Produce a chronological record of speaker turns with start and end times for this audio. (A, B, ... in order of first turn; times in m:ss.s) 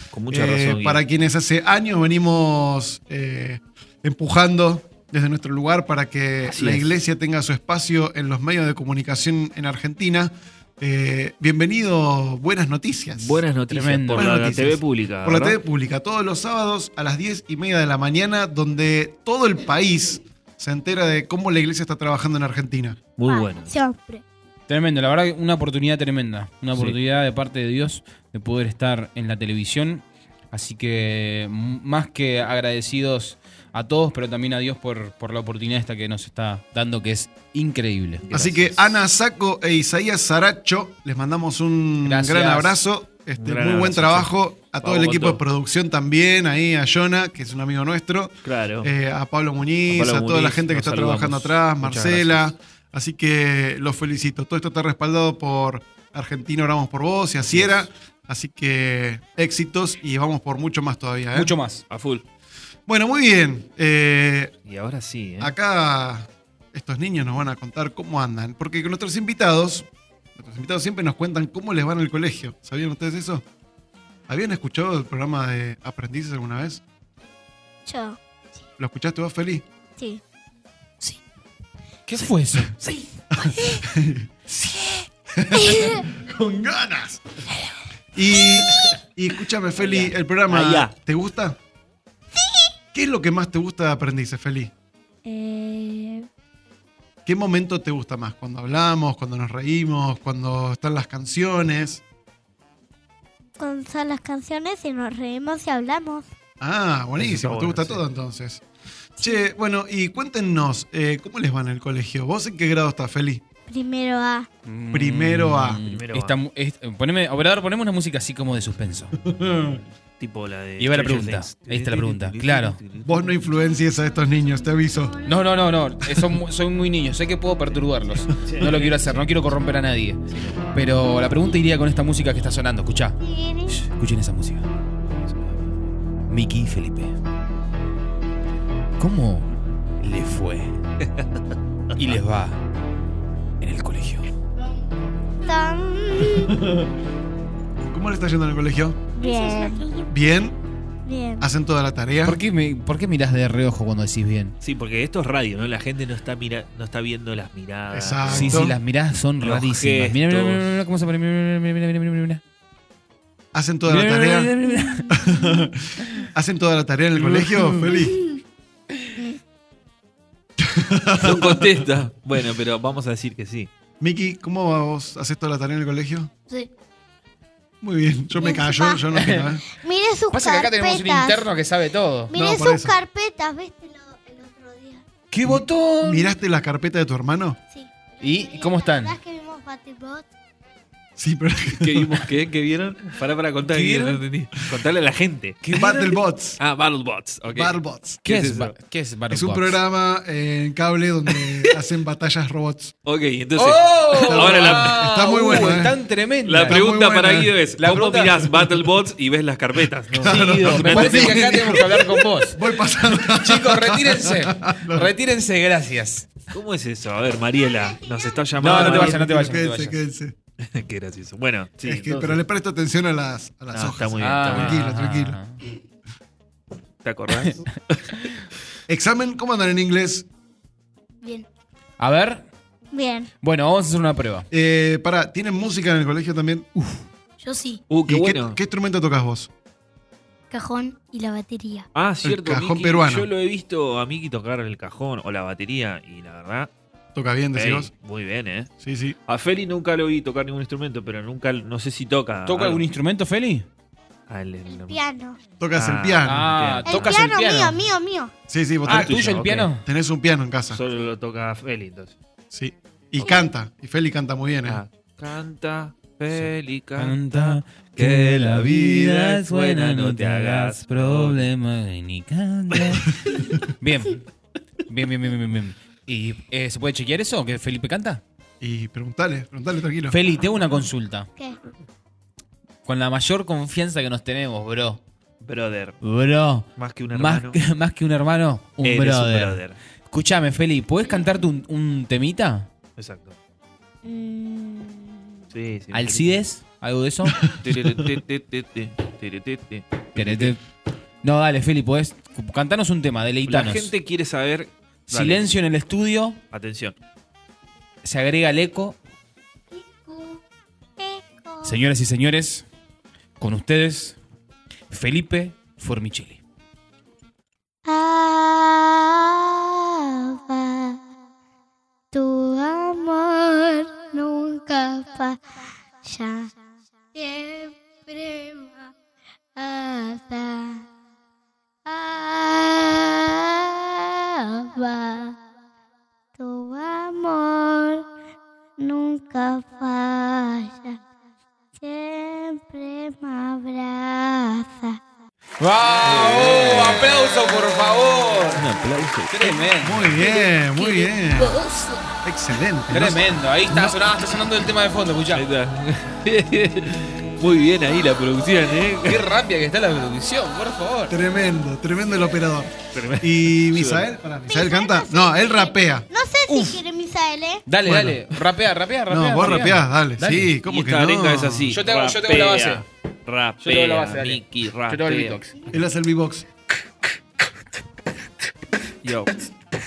0:00.1-0:01.0 A
0:00.3-0:13.4 B
0:06.4-0:06.9 A
0:13.1-0:15.6 A
0:13.7-0:14.3 C
0:14.1-0:23.0 B
0:23.2-0:23.7 A
0:23.3-0:24.2 D
0:24.7-0:38.2 C
0:38.2-0:38.9 A
0:38.3-1:01.5 B
0:42.0-0:42.8 C
0:43.4-0:45.4 A
0:48.4-0:48.9 A
0:49.9-0:52.4 A
0:57.5-0:57.9 A
1:01.3-1:01.8 C
1:01.9-1:02.2 A
1:02.9-1:04.5 B
1:04.7-1:05.5 A
1:05.4-1:13.4 B
1:14.3-1:16.8 B
1:17.8-1:18.2 D
1:18.8-1:19.6 B
1:22.1-1:22.7 C
1:23.3-1:24.7 B
1:23.6-1:23.8 D
1:25.3-1:27.2 B
1:25.5-1:26.0 D
1:28.1-1:31.6 B
1:29.8-1:30.9 A
1:32.4-1:32.7 D
1:32.9-1:34.7 B
1:35.2-1:36.2 D
1:37.2-1:42.0 B
1:43.6-1:46.3 D
1:46.6-1:48.6 B
1:47.2-1:48.0 A
1:49.2-1:53.4 B
1:53.7-1:54.5 D
1:54.6-1:59.2 C
1:54.9-1:55.8 B
1:55.8-1:56.4 A
1:59.2-1:59.8 B
2:00.2-2:03.3 A
2:00.8-2:02.8 C
2:03.0-2:05.2 B
2:05.2-2:10.2 C
2:08.4-2:09.5 A
2:10.3-2:10.8 A
2:10.7-2:14.6 C
2:13.2-2:13.8 D
2:16.3-2:17.1 C
2:19.0-2:19.5 C
2:20.0-2:20.8 C
2:22.0-2:22.6 C
2:23.6-2:24.3 C
2:25.4-2:26.6 D
2:26.4-2:26.9 B
2:27.8-2:29.0 B
2:29.2-2:30.1 D
2:29.2-2:29.7 E
2:30.1-2:30.6 B
2:31.0-2:31.5 D
2:31.4-2:32.4 B
2:32.2-2:34.5 C
2:34.6-2:38.8 A
2:37.9-2:38.8 B
2:38.3-2:42.4 C
2:39.4-2:40.6 A
2:43.5-2:44.5 B
2:43.9-2:45.1 C
2:45.1-2:48.2 B
2:50.6-2:51.8 B
2:51.2-2:53.7 A
2:54.0-2:56.3 B
2:57.8-2:59.6 B
2:58.4-2:59.0 D
2:59.1-2:59.5 C
2:59.8-3:01.4 D
3:00.3-3:02.3 C
3:02.3-3:05.0 D
3:02.3-3:02.9 B
3:05.3-3:06.3 C
3:05.4-3:07.6 B
3:07.7-3:10.3 D
3:08.2-3:09.1 C
3:11.2-3:12.3 B
3:11.7-3:15.6 A
3:13.7-3:14.2 C
3:15.6-3:16.1 C
3:15.7-3:16.6 B
3:16.6-3:18.7 A
3:17.5-3:18.2 B
3:18.2-3:19.8 C
3:19.3-3:22.9 B
3:21.4-3:21.8 A
3:23.0-3:25.0 A
3:23.6-3:26.8 C
3:24.2-3:26.0 B
3:26.4-3:31.8 A
3:26.6-3:27.5 B
3:27.8-3:28.5 C
3:30.1-3:35.1 B
3:30.2-3:32.6 C
3:33.1-3:36.3 C
3:36.5-3:39.2 A
3:38.6-3:40.0 C
3:38.6-3:40.3 B
3:40.6-3:42.4 A
3:41.8-3:45.4 B
3:43.7-3:44.8 A
3:44.2-3:45.6 C
3:47.0-3:48.3 A
3:48.9-3:50.2 B
3:52.0-3:52.4 C
3:52.9-3:53.3 D
3:53.4-3:54.4 C
3:54.5-3:56.7 B
3:57.4-3:57.8 E
3:57.9-3:58.6 A
3:58.0-3:59.5 B
4:00.5-4:01.9 E
4:01.9-4:06.7 A
4:02.2-4:03.3 B
4:07.1-4:07.9 B
4:07.5-4:08.7 A
4:08.8-4:09.2 B
4:09.3-4:12.8 A
4:12.4-4:13.6 C
4:14.3-4:15.0 A
4:14.7-4:15.4 D
4:15.6-4:16.6 B
4:15.7-4:17.2 A
4:16.2-4:17.8 C
4:16.8-4:18.3 D
4:18.5-4:19.2 B
4:18.8-4:19.7 A
4:18.8-4:19.8 C
4:19.8-4:20.8 B
4:20.7-4:22.2 A
4:22.5-4:24.8 B
4:23.2-4:23.4 D
4:24.7-4:31.5 A
4:26.3-4:34.2 C
4:34.9-4:38.2 C
4:38.6-4:40.2 B
4:40.1-4:41.3 C
4:42.8-4:45.0 C
4:45.4-4:46.0 A
4:46.0-4:52.7 C
4:46.8-4:47.6 A
4:48.8-4:49.8 A
4:53.0-4:53.4 A
4:54.0-4:55.4 D
4:55.5-4:56.4 A
4:55.9-4:57.4 C
4:57.4-4:57.8 B
4:57.5-5:00.5 A
5:00.1-5:00.6 C
5:01.2-5:03.9 C
5:03.5-5:05.5 A
5:05.1-5:06.4 C
5:06.5-5:06.9 A
5:08.0-5:09.0 C
5:09.7-5:10.4 D
5:11.0-5:11.8 D
5:11.6-5:12.6 C
5:13.4-5:14.2 C
5:14.9-5:16.4 C
5:17.8-5:21.0 D
5:22.1-5:25.4 D
5:26.0-5:26.5 D
5:27.1-5:28.9 D
5:29.6-5:30.8 D
5:31.8-5:35.4 D
5:36.4-5:38.0 D
5:38.8-5:41.0 D
5:41.8-5:45.0 D
5:45.6-5:48.7 C
5:46.0-5:47.1 A
5:48.5-5:49.6 A
5:49.3-5:50.2 C
5:49.8-5:51.6 B
5:50.2-5:52.0 D
5:52.2-5:54.0 B
5:52.9-5:55.4 C
5:55.3-5:59.3 A
5:59.0-6:01.1 C
6:01.1-6:06.0 B
6:02.9-6:04.1 A
6:04.5-6:07.6 D
6:06.5-6:06.8 C
6:07.6-6:10.5 C
6:07.8-6:08.2 B
6:09.1-6:11.7 B
6:09.4-6:09.7 A
6:10.6-6:15.4 A
6:11.7-6:12.8 C
6:13.6-6:15.5 C
6:15.7-6:16.4 B
6:19.0-6:19.3 A